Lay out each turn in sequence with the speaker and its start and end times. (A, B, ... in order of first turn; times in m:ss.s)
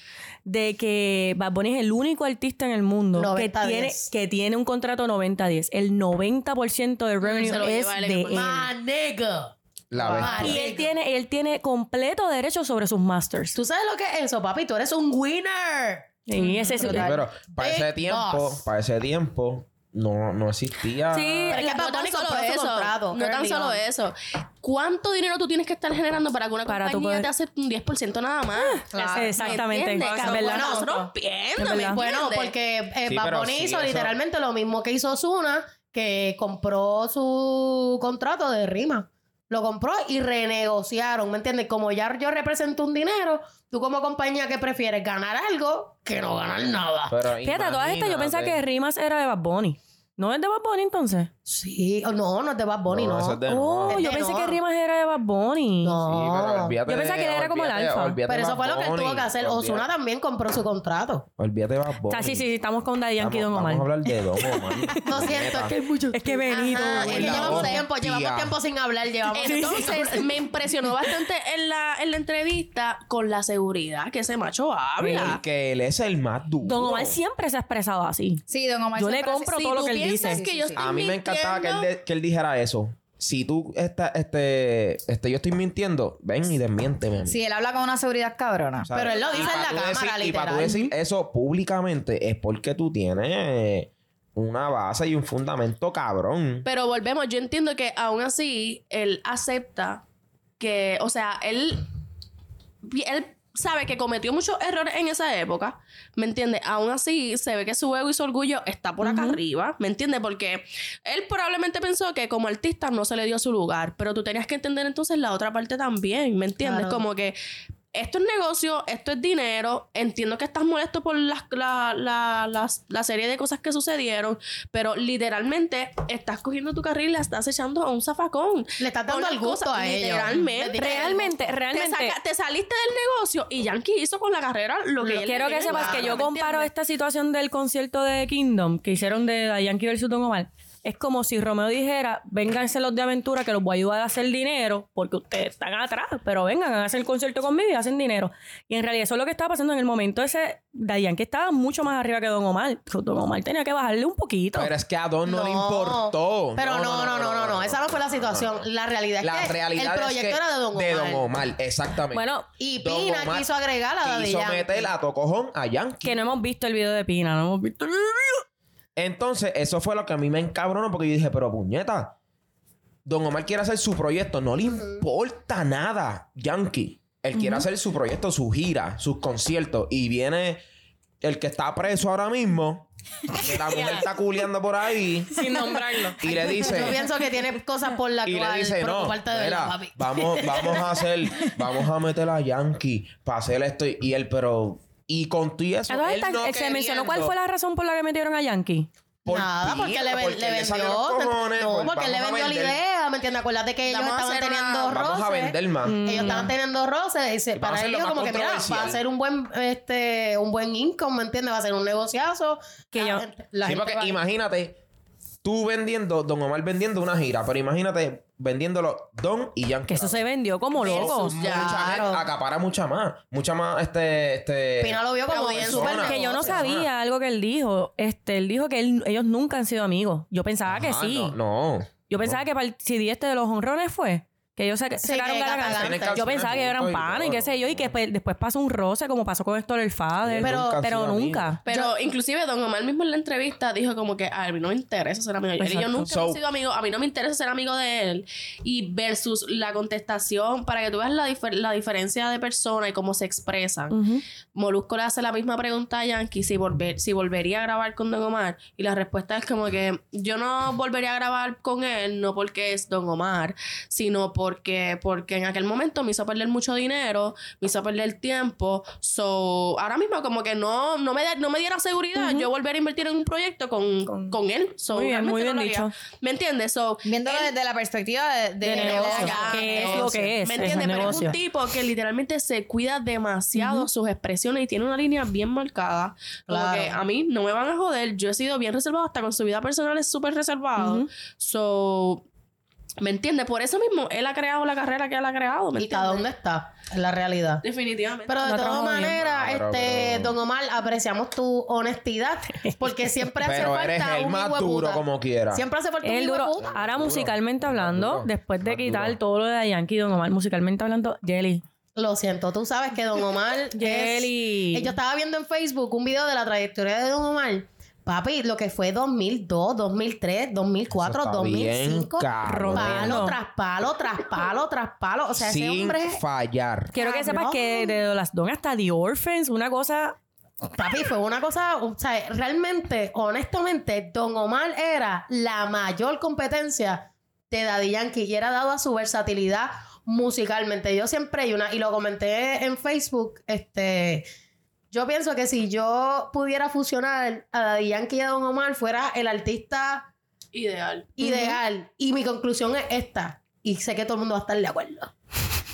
0:00.5-0:08.7 A
0:03.1-0:04.1 B
0:07.2-0:08.6 C
0:08.3-0:10.9 B
0:09.9-0:10.6 D
0:10.2-0:13.6 A
0:13.5-0:16.2 B
0:16.3-0:17.2 A
0:16.4-0:16.8 C
0:16.8-0:18.6 B
0:16.8-0:21.5 D
0:21.1-0:21.6 A
0:21.5-0:23.8 B
0:21.5-0:32.5 C
0:26.7-0:27.3 A
0:28.5-0:30.8 A
0:28.9-0:29.6 B
0:30.0-0:31.0 E
0:30.2-0:31.0 B
0:31.6-0:32.0 A
0:31.9-0:47.2 B
0:33.0-0:34.2 D
0:47.1-0:48.6 D
0:47.4-0:51.3 A
0:51.5-0:54.6 B
0:52.9-0:54.0 D
0:53.5-0:56.0 A
0:55.8-0:56.8 B
0:56.0-0:59.9 D
0:56.9-0:58.2 A
0:58.3-1:01.2 B
1:01.4-1:02.5 D
1:02.1-1:03.9 A
1:03.2-1:05.7 D
1:05.0-1:10.3 B
1:06.1-1:07.8 A
1:06.8-1:08.6 D
1:09.3-1:15.4 C
1:09.4-1:10.1 A
1:15.0-1:15.4 A
1:15.1-1:17.2 D
1:16.6-1:18.4 A
1:18.5-1:20.8 F
1:19.0-1:20.4 A
1:19.8-1:21.9 C
1:20.8-1:27.4 D
1:27.2-1:28.9 F
1:28.8-1:36.6 D
1:28.9-1:30.9 B
1:29.1-1:29.6 C
1:36.6-1:40.0 C
1:40.6-1:41.9 C
1:42.8-1:57.4 C
1:49.0-1:49.4 A
1:56.6-1:57.0 B
1:57.9-2:16.7 C
2:08.8-2:11.3 B
2:10.8-2:12.2 A
2:15.0-2:16.2 B
2:15.2-2:34.7 A
2:34.5-2:38.7 D
2:35.2-2:41.3 B
2:39.2-2:43.5 D
2:42.1-2:42.5 A
2:42.6-2:44.9 B
2:44.0-2:46.2 D
2:46.0-2:48.4 A
2:49.0-2:52.1 D
2:53.0-3:00.6 D
2:57.4-2:57.6 A
3:01.2-3:05.5 D
3:03.6-3:04.0 E
3:05.3-3:06.2 E
3:06.2-3:07.0 D
3:06.3-3:11.0 B
3:08.2-3:17.4 D
3:15.9-3:18.9 A
3:19.2-3:22.8 D
3:19.2-3:34.2 B
3:23.9-3:25.0 C
3:24.9-3:26.5 D
3:25.8-3:26.5 A
3:27.5-3:29.0 D
3:32.9-3:33.2 A
3:33.6-3:34.8 D
3:35.4-3:40.2 D
3:39.9-3:41.4 A
3:40.8-3:42.2 B
3:40.8-3:46.9 D
3:41.4-3:41.9 C
3:44.8-3:46.6 B
3:45.3-3:46.2 C
3:46.0-3:51.4 A
3:50.6-3:52.4 D
3:52.1-4:01.6 A
3:55.0-3:56.4 B
3:55.7-3:58.0 D
4:00.2-4:01.6 D
4:00.4-4:00.8 B
4:01.6-4:14.0 C
4:01.7-4:01.9 B
4:05.6-4:06.1 A
4:06.1-4:06.4 D
4:13.9-4:14.2 A
4:14.5-4:37.5 C
4:32.1-4:32.5 A
4:34.9-4:35.9 A
4:37.0-4:40.9 F
4:38.6-4:41.0 B
4:38.6-4:41.4 A
4:38.7-4:52.2 C
4:43.5-4:43.9 A
4:46.5-4:47.0 B
4:50.8-4:51.1 A
4:53.0-4:56.3 C
4:55.8-4:57.6 B
4:57.6-4:58.4 C
4:58.3-5:06.7 B
4:58.4-4:59.2 A
4:59.1-5:00.4 D
5:03.4-5:05.6 D
5:06.0-5:11.6 A
5:06.6-5:09.2 D
5:12.0-5:26.2 B
5:13.7-5:15.0 A
5:20.9-5:23.3 D
5:22.4-5:23.4 A
5:25.4-5:26.9 D
5:26.9-5:30.2 A
5:27.0-5:27.9 B
5:30.8-5:44.3 B
5:44.9-5:50.1 B
5:50.5-5:51.1 C
5:51.2-5:55.1 B
5:51.2-5:51.6 A